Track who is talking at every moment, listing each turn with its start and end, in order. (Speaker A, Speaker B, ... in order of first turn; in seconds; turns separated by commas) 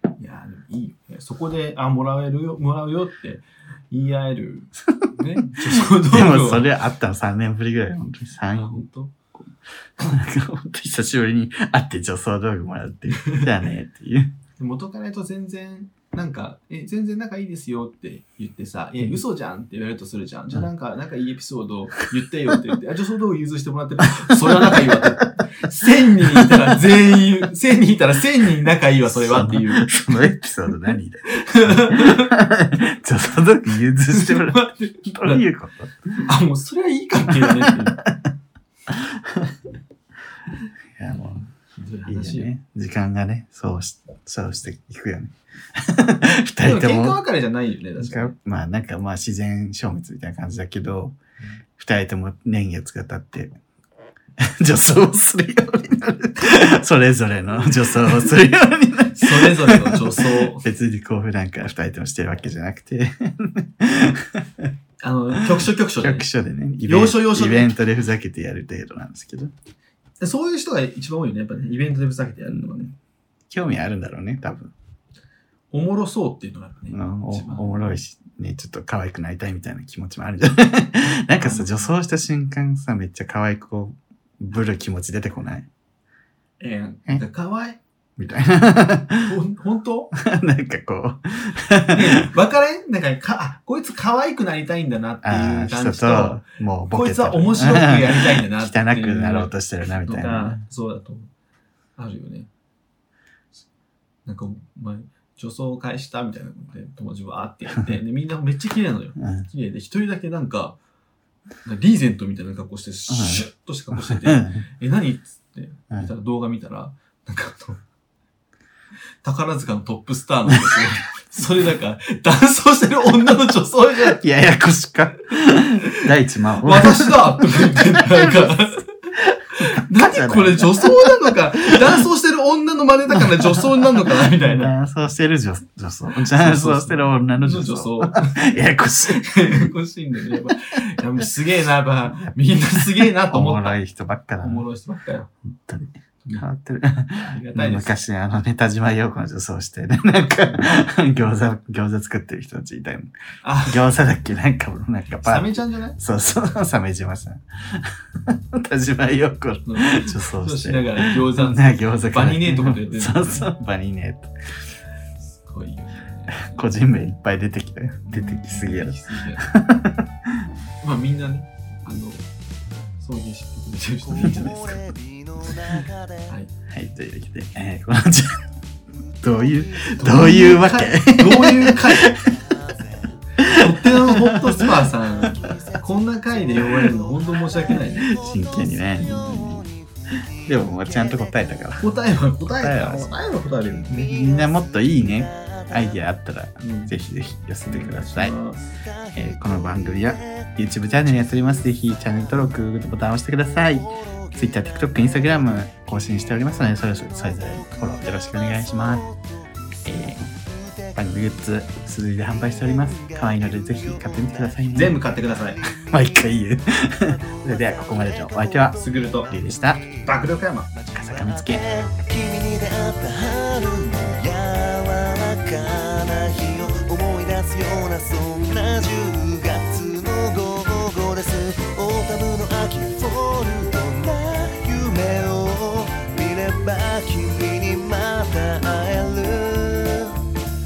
Speaker A: 0.2-6.7, Speaker B: 5.5-14.3, Speaker A: 8.5-9.1, Speaker A: 13.2-13.5, Speaker A: 14.6-29.9, Speaker B: 24.2-25.1, Speaker B: 25.9-26.6, Speaker B: 29.1-36.2, Speaker A: 31.3-32.4, Speaker A: 34.1-35.4, Speaker A: 36.2-38.0, Speaker B: 37.3-38.1, Speaker B: 38.9-39.6, Speaker B: 40.9-41.5, Speaker A: 41.7-42.5, Speaker B: 42.1-47.2, Speaker A: 46.6-48.4, Speaker B: 48.0-51.2, Speaker B: 51.8-53.6, Speaker B: 54.4-64.7, Speaker A: 59.1-60.6, Speaker A: 65.0-66.3, Speaker B: 66.0-69.5, Speaker A: 66.8-67.7, Speaker A: 70.2-72.9, Speaker B: 73.5-74.7, Speaker A: 75.7-78.0, Speaker B: 76.9-85.7, Speaker A: 81.3-81.9, Speaker A: 86.6-87.8, Speaker B: 88.2-89.3, Speaker A: 89.2-90.1, Speaker B: 90.2-92.2, Speaker A: 91.9-101.3, Speaker B: 95.2-100.6, Speaker A: 102.0-102.5, Speaker A: 104.3-110.8, Speaker B: 109.2-109.5, Speaker A: 111.6-117.8, Speaker B: 113.1-114.6, Speaker A: 119.2-124.2, Speaker B: 120.5-120.8, Speaker B: 124.1-128.6, Speaker A: 126.6-134.7, Speaker B: 129.6-132.0, Speaker B: 133.2-139.7, Speaker A: 136.2-138.4, Speaker A: 139.1-143.8, Speaker B: 142.2-144.7, Speaker A: 144.4-145.3, Speaker B: 145.5-153.1, Speaker A: 147.2-147.9, Speaker A: 153.4-153.9, Speaker B: 153.7-164.3, Speaker A: 155.2-156.0, Speaker A: 159.7-163.5, Speaker A: 165.3-166.7, Speaker B: 166.4-170.5, Speaker A: 168.0-169.5, Speaker A: 170.8-172.3, Speaker A: 173.0-174.8, Speaker C: 174.0-176.4, Speaker A: 175.5-176.5, Speaker B: 176.7-178.4, Speaker C: 178.9-180.8, Speaker B: 179.2-182.4, Speaker A: 180.0-182.1, Speaker C: 181.4-183.4, Speaker B: 183.4-185.5, Speaker A: 183.4-188.1, Speaker C: 184.6-191.9, Speaker B: 186.6-186.9, Speaker B: 187.7-189.7, Speaker B: 190.4-191.9, Speaker A: 191.8-193.9, Speaker B: 192.6-193.1, Speaker C: 192.7-196.0, Speaker B: 193.9-198.3, Speaker A: 196.6-196.9, Speaker A: 197.7-198.6, Speaker C: 198.6-202.6, Speaker B: 199.2-209.1, Speaker C: 203.3-209.2, Speaker C: 209.7-240.3, Speaker B: 209.9-210.3, Speaker B: 211.0-215.0, Speaker A: 214.7-215.6, Speaker B: 215.8-219.8, Speaker A: 218.8-219.3, Speaker A: 220.1-220.7, Speaker B: 220.9-221.6